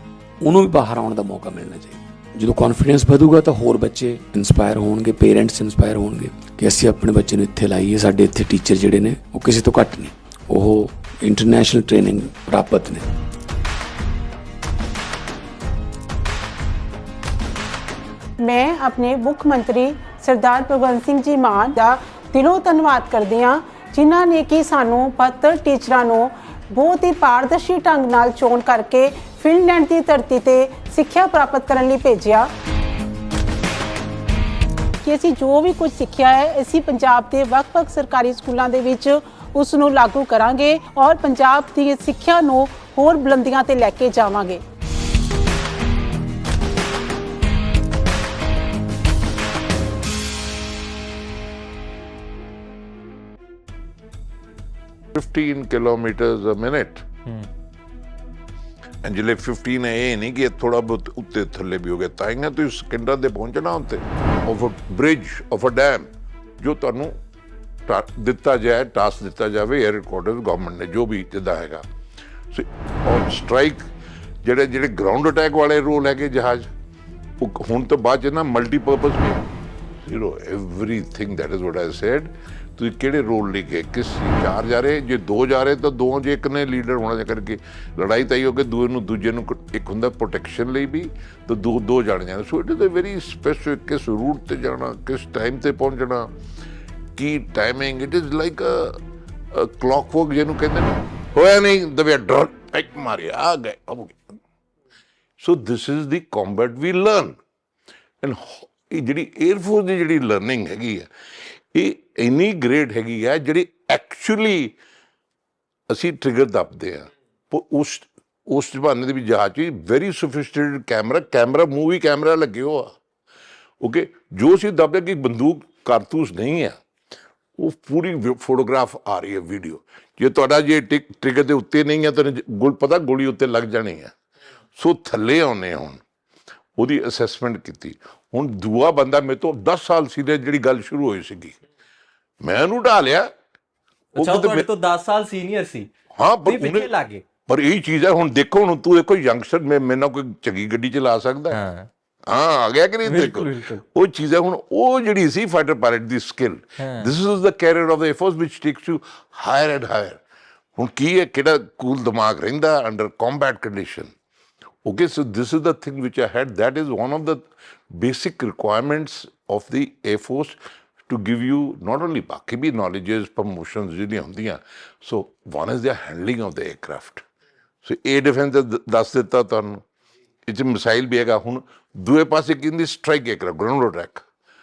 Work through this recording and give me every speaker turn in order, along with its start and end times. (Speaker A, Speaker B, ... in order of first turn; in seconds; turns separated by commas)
Speaker A: 0.4-13.1, Speaker B: 18.4-32.5, Speaker B: 35.0-44.6, Speaker C: 55.1-57.0, Speaker C: 59.0-66.1, Speaker C: 66.6-67.2, Speaker C: 67.9-71.8, Speaker C: 72.5-73.8, Speaker C: 74.4-76.7, Speaker C: 77.4-79.4, Speaker C: 80.0-96.3, Speaker C: 97.2-99.0, Speaker C: 99.5-104.2, Speaker C: 105.4-107.4, Speaker C: 108.2-111.1, Speaker C: 111.7-114.8, Speaker C: 115.9-122.9, Speaker C: 123.8-126.7, Speaker C: 127.6-134.1, Speaker C: 134.8-136.0, Speaker C: 136.8-141.5, Speaker C: 142.4-143.3, Speaker C: 144.1-144.7, Speaker D: 144.2-145.9, Speaker C: 146.1-146.9, Speaker D: 146.4-147.2, Speaker C: 147.4-151.6, Speaker D: 151.5-151.9, Speaker C: 152.3-160.2, Speaker D: 153.0-153.8, Speaker D: 156.8-157.1, Speaker C: 160.8-164.1, Speaker C: 164.8-177.2, Speaker C: 177.8-179.8, Speaker C: 180.5-184.2